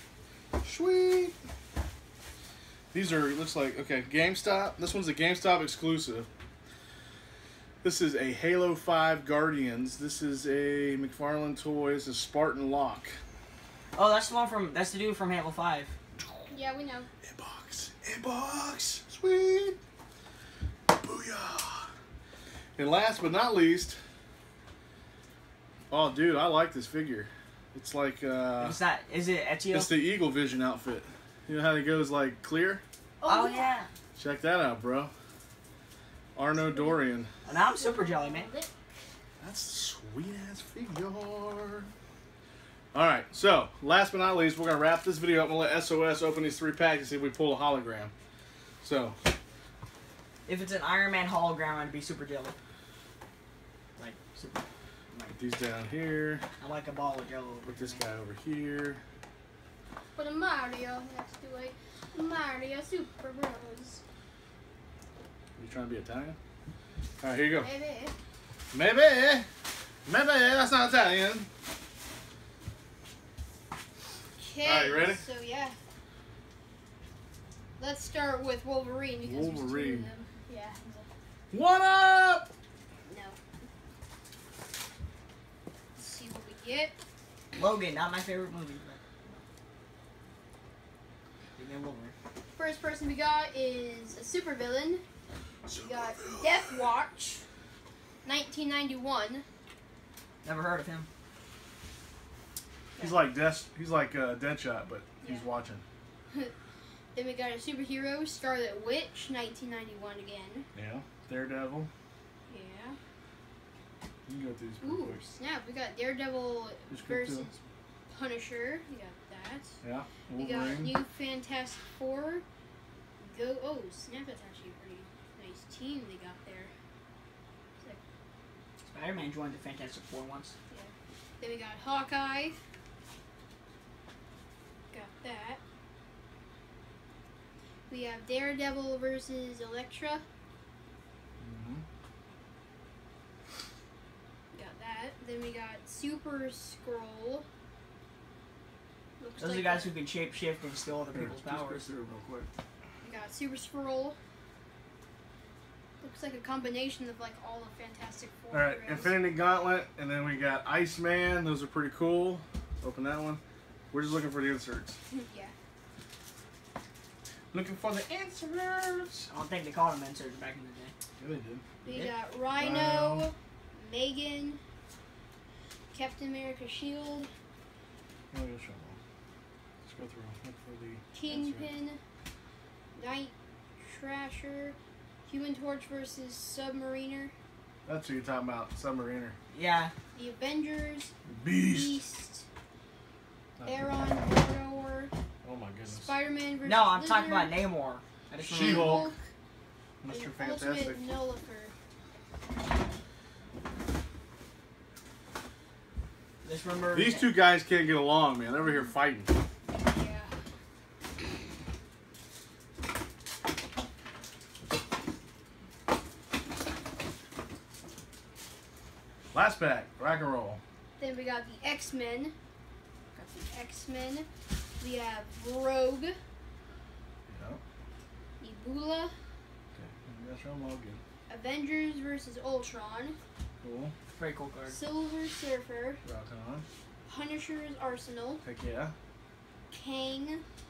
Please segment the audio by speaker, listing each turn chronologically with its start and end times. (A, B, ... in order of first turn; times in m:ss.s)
0:00.6-0:01.4 A
0:02.9-0:06.3 A
0:07.8-0:13.2 A
0:13.9-0:15.9 B
0:16.5-0:17.1 C
0:17.2-0:19.8 A
0:20.9-0:21.9 A
0:22.8-0:24.0 A
0:25.9-0:28.8 A
0:28.6-0:29.9 B
0:29.7-0:32.8 A
0:33.2-0:33.7 C
0:33.3-0:33.9 B
0:34.2-0:35.1 A
0:36.3-0:37.3 A
0:36.6-0:37.0 C
0:37.4-0:38.5 B
0:37.7-0:38.7 C
0:39.4-0:41.9 A
0:42.9-0:48.1 A
0:48.8-0:49.2 A
0:50.4-0:52.6 B
0:54.0-0:55.4 B
0:55.3-0:56.4 A
0:56.6-0:58.0 B
0:57.6-0:59.0 A
1:00.1-1:04.0 C
1:05.6-1:06.4 A
1:07.2-1:07.7 A
1:07.6-1:08.1 C
1:08.7-1:09.5 A
1:10.0-1:11.5 A
1:14.4-1:15.7 C
1:14.6-1:15.2 A
1:17.8-1:21.1 C
1:19.2-1:20.1 A
1:21.5-1:22.5 A
1:23.0-1:23.4 C
1:26.0-1:27.0 C
1:27.5-1:29.4 B
1:31.6-1:32.1 B
1:32.5-1:35.0 C
1:35.7-1:36.5 A
1:35.7-1:37.4 C
1:38.2-1:39.4 C
1:40.4-1:41.1 B
1:43.0-1:43.2 C
1:43.0-1:45.8 A
1:45.2-1:45.5 C
1:47.1-1:50.7 C
1:50.7-1:51.9 A
1:52.5-1:53.0 C
1:54.3-1:55.2 A
1:54.8-1:57.6 C
1:56.9-1:57.5 A
1:58.1-1:59.7 C
1:59.8-2:00.9 A
2:00.4-2:02.4 C
2:03.2-2:06.7 C
2:08.8-2:10.5 B
2:10.7-2:12.6 C
2:14.9-2:15.6 C
2:17.9-2:20.2 C
2:21.4-2:21.8 A
2:24.5-2:27.4 C
2:29.2-2:29.9 C
2:29.4-2:31.8 B
2:31.1-2:32.5 A
2:33.0-2:34.2 C
2:36.0-2:39.3 C
2:38.5-2:45.0 A
2:45.1-2:45.5 C
2:47.5-2:49.3 A
2:49.3-2:50.9 B
2:51.2-2:51.6 A
2:51.8-2:54.6 C
2:51.9-2:52.1 B
2:52.5-2:53.3 A
2:55.9-2:57.3 C
2:58.3-2:59.0 A
2:59.8-3:01.7 A
3:01.1-3:02.0 C
3:02.9-3:07.3 C
3:07.8-3:09.4 A
3:09.5-3:09.9 B
3:10.1-3:12.4 C
3:11.2-3:12.0 A
3:13.6-3:14.3 A
3:13.6-3:15.1 C
3:15.4-3:16.1 A
3:15.9-3:17.5 C
3:16.6-3:19.1 B
3:18.4-3:19.1 A
3:18.4-3:19.2 C
3:20.0-3:21.0 A
3:20.1-3:21.7 C
3:26.4-3:27.3 B
3:26.9-3:29.3 A
3:29.8-3:30.3 C
3:39.3-3:40.6 A
3:41.0-3:42.3 C
3:43.1-3:44.3 C
3:44.8-3:46.2 C
3:47.3-3:47.6 A
3:48.4-3:49.1 C
3:49.7-3:51.0 A
3:51.3-3:53.2 C
3:53.6-3:53.9 A
3:54.1-3:54.8 B
3:54.7-3:56.0 C
3:56.0-3:56.6 A
3:57.0-3:58.4 C
3:58.4-3:58.9 A
3:59.7-4:00.4 C